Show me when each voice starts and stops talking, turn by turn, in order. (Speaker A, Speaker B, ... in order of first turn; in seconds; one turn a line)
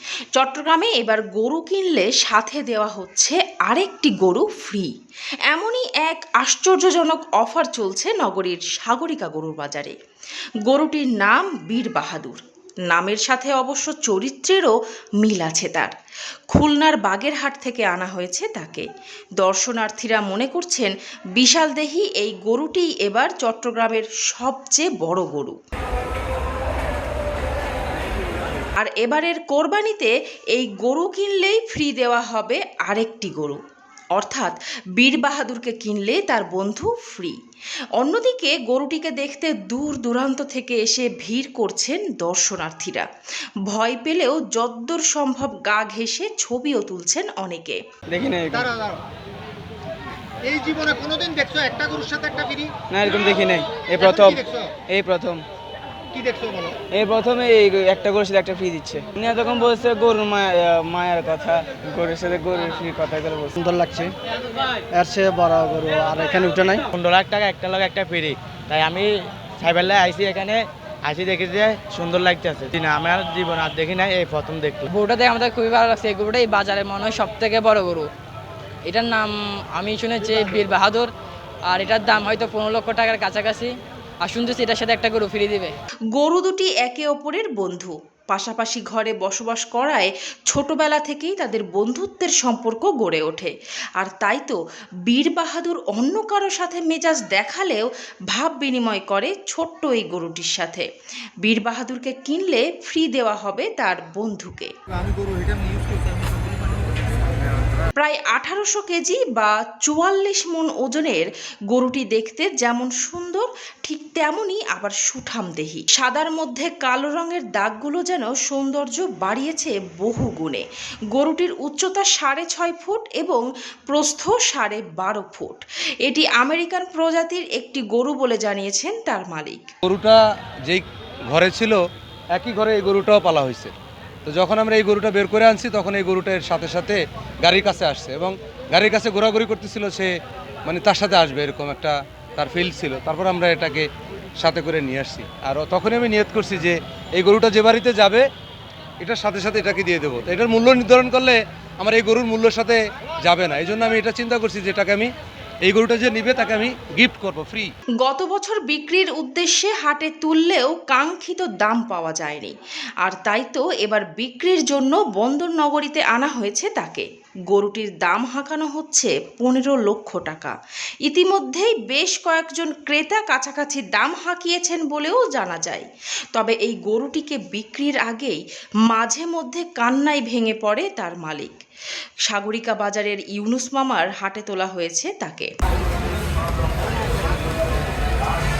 Speaker A: 0.4-4.9
Speaker A: 5.5-9.9
Speaker A: 10.7-15.9
Speaker A: 16.5-18.9
Speaker A: 19.4-25.6
Speaker A: 28.8-33.6
Speaker A: 34.2-37.4
Speaker A: 38.0-43.1
Speaker A: 43.7-47.8
Speaker B: 48.1-48.7
Speaker C: 50.5-52.7
Speaker B: 52.9-55.4
Speaker C: 54.4-54.7
Speaker C: 56.1-56.8
Speaker B: 56.9-63.6
Speaker D: 63.6-64.1
Speaker D: 64.9-66.8
Speaker E: 66.9-74.9
Speaker F: 74.9-78.1
Speaker F: 78.9-81.1
Speaker F: 81.7-83.7
Speaker F: 84.2-85.7
Speaker A: 86.2-100.9
Speaker A: 101.4-104.7
Speaker C: 105.0-107.0
Speaker A: 108.0-129.7
Speaker G: 129.8-131.8
Speaker G: 132.3-133.7
Speaker G: 134.2-140.1
Speaker G: 140.7-143.9
Speaker G: 144.4-148.2
Speaker G: 149.0-155.1
Speaker G: 155.7-157.7
Speaker A: 158.0-170.5
Speaker A: 171.1-181.6
Speaker A: 182.3-185.5